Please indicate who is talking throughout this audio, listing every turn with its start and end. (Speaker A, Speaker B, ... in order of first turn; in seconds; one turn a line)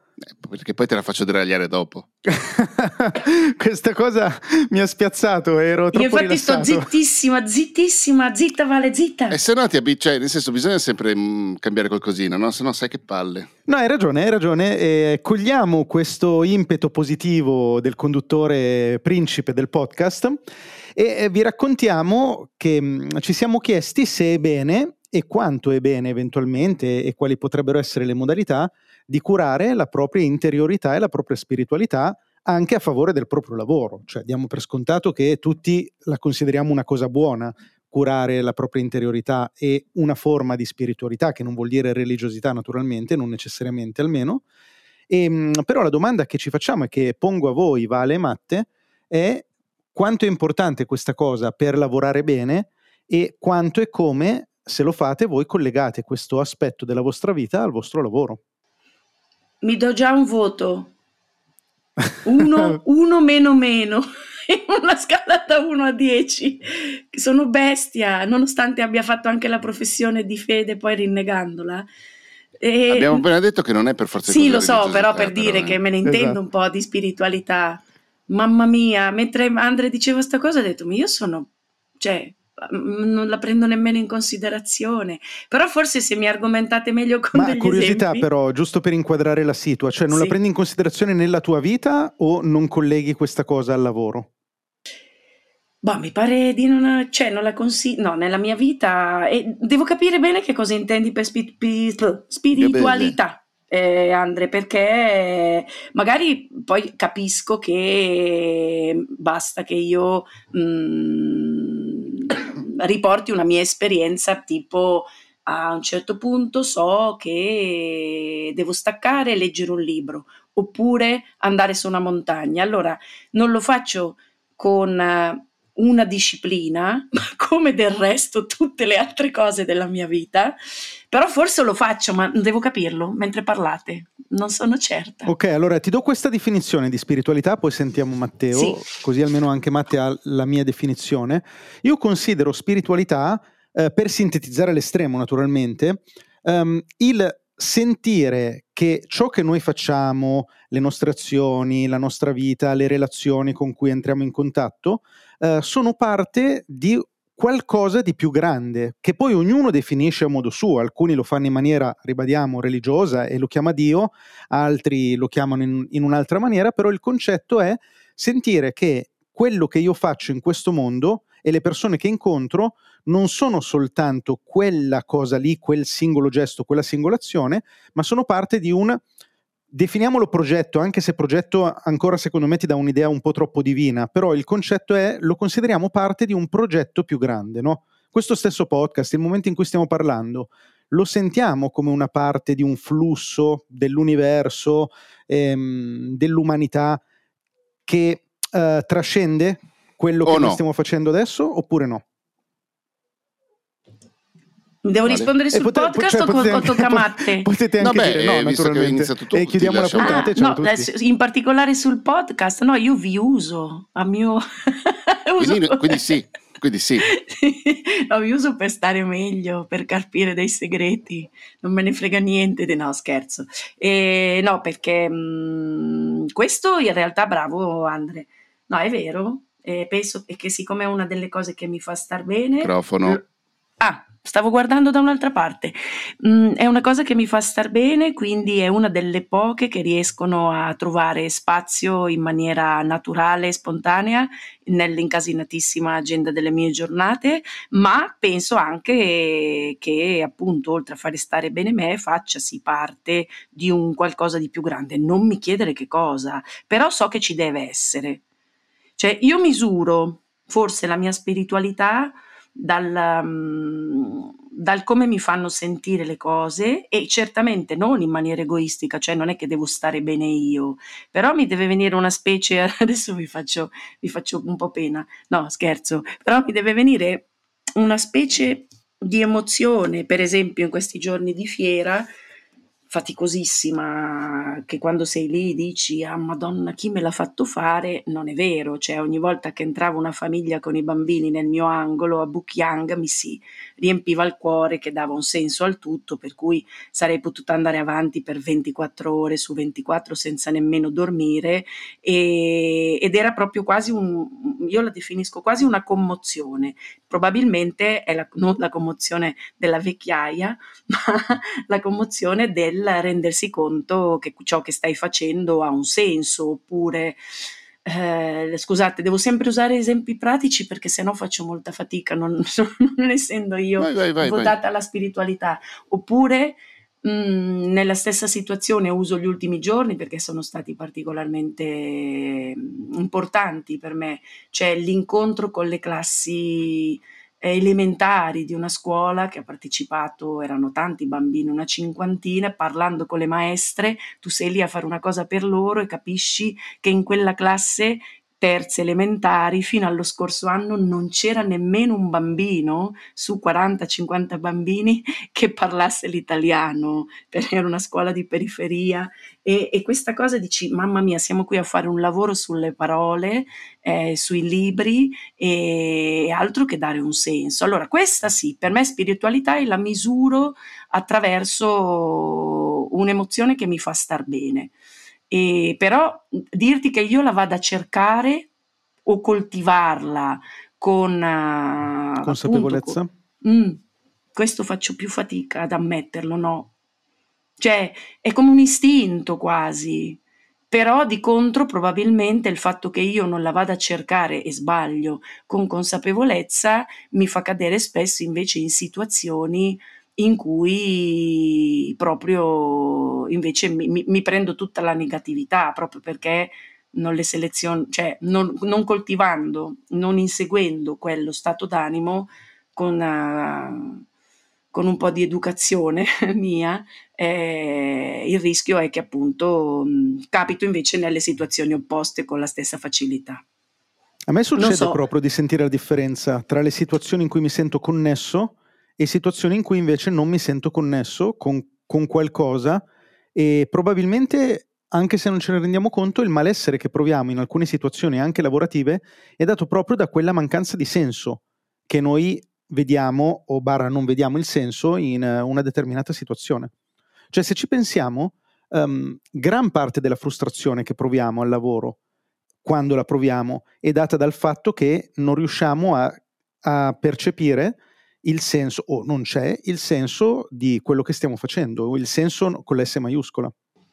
Speaker A: 0.4-2.1
Speaker B: 2.2-6.9
Speaker C: 5.9-9.4
Speaker A: 9.3-13.5
Speaker B: 13.7-20.4
Speaker B: 20.9-44.4
Speaker B: 45.1-58.4
Speaker C: 59.6-60.9
Speaker C: 62.2-71.8
Speaker C: 72.6-73.2
Speaker A: 72.9-75.8
Speaker C: 74.3-88.2
Speaker B: 76.0-76.4
Speaker B: 87.3-94.3
Speaker C: 90.1-90.4
Speaker C: 95.8-130.6
Speaker A: 102.5-103.1
Speaker C: 131.1-135.3
Speaker B: 135.2-179.0
Speaker C: 138.5-138.8
Speaker B: 179.7-197.0
Speaker B: 197.8-202.0
Speaker A: 200.2-200.6
Speaker C: 204.8-207.5
Speaker B: 205.5-210.9
Speaker A: 207.8-210.3
Speaker C: 210.0-216.1
Speaker A: 215.4-217.1
Speaker C: 217.0-233.2
Speaker A: 232.6-233.2
Speaker C: 233.8-258.2
Speaker C: 259.0-282.1
Speaker C: 282.9-317.2
Speaker C: 317.8-374.7
Speaker A: 323.8-324.5
Speaker C: 375.3-378.5
Speaker C: 379.1-383.8
Speaker B: 382.2-383.1
Speaker C: 384.3-386.7
Speaker C: 387.6-390.2
Speaker C: 390.7-414.0
Speaker C: 414.7-423.4
Speaker B: 424.3-446.7
Speaker C: 424.6-425.0
Speaker B: 447.3-452.0
Speaker B: 452.6-463.5